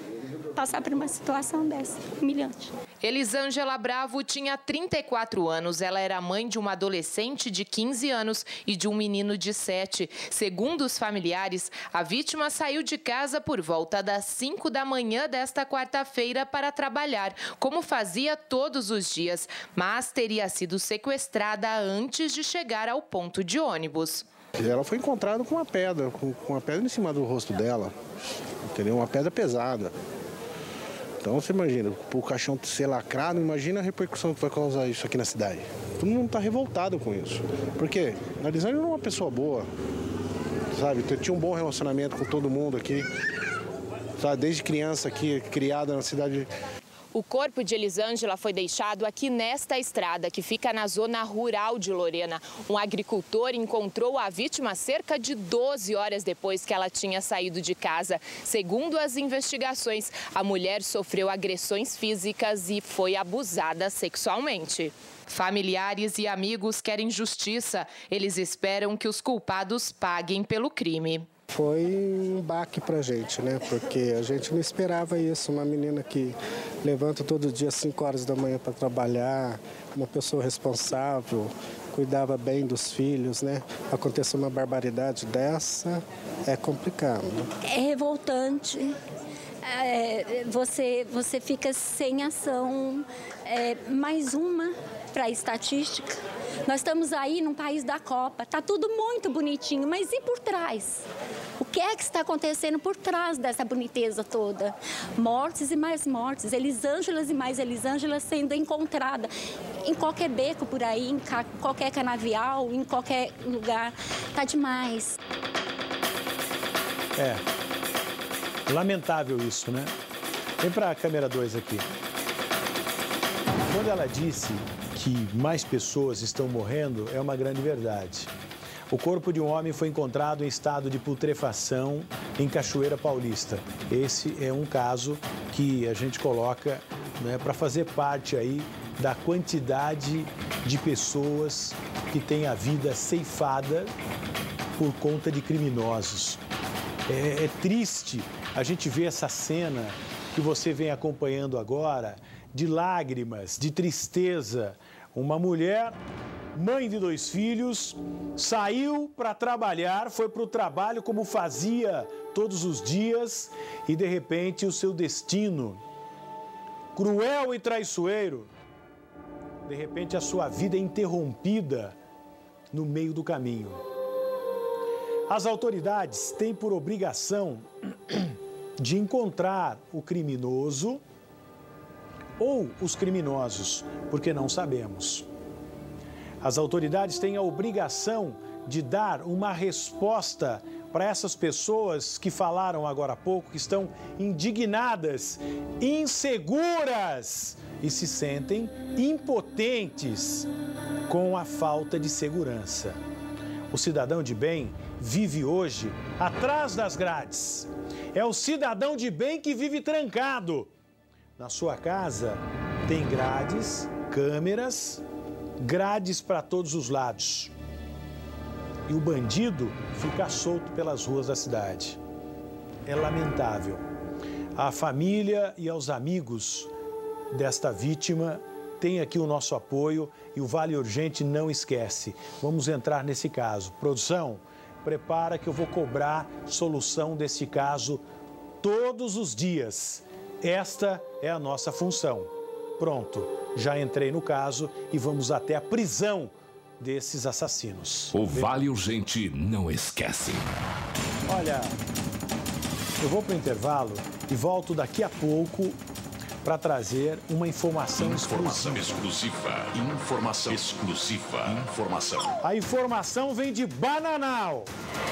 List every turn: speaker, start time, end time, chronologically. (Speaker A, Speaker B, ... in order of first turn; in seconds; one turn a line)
Speaker A: 0.6-2.7
Speaker B: 3.0-24.3
Speaker C: 24.6-28.0
Speaker C: 28.7-29.9
Speaker C: 31.2-39.7
Speaker C: 40.7-43.1
Speaker C: 44.2-46.5
Speaker B: 47.1-71.3
Speaker D: 71.5-87.5
Speaker A: 87.6-89.0
Speaker A: 89.6-101.0
Speaker A: 101.6-109.3
Speaker A: 109.8-115.2
Speaker E: 118.7-119.9
Speaker E: 120.6-121.9
Speaker E: 123.7-128.3
Speaker E: 128.9-143.9
Speaker E: 144.8-146.4
Speaker E: 147.1-156.0
Speaker E: 156.5-165.8
Speaker E: 166.9-168.5
Speaker E: 169.7-172.0
Speaker E: 172.7-173.8
Speaker E: 175.3-181.0
Speaker E: 182.4-185.3
Speaker E: 186.4-200.5
Speaker E: 201.1-203.0
Speaker E: 203.7-210.7
Speaker E: 211.4-215.0
Speaker E: 215.6-217.5
Speaker E: 218.9-222.0
Speaker E: 222.9-223.8
Speaker E: 224.6-226.7
Speaker E: 227.3-238.0
Speaker E: 238.6-248.5
Speaker F: 248.1-250.5
Speaker E: 251.3-251.8
Speaker E: 253.0-255.8
Speaker E: 256.4-258.9
Speaker F: 257.9-262.3
Speaker E: 262.4-264.7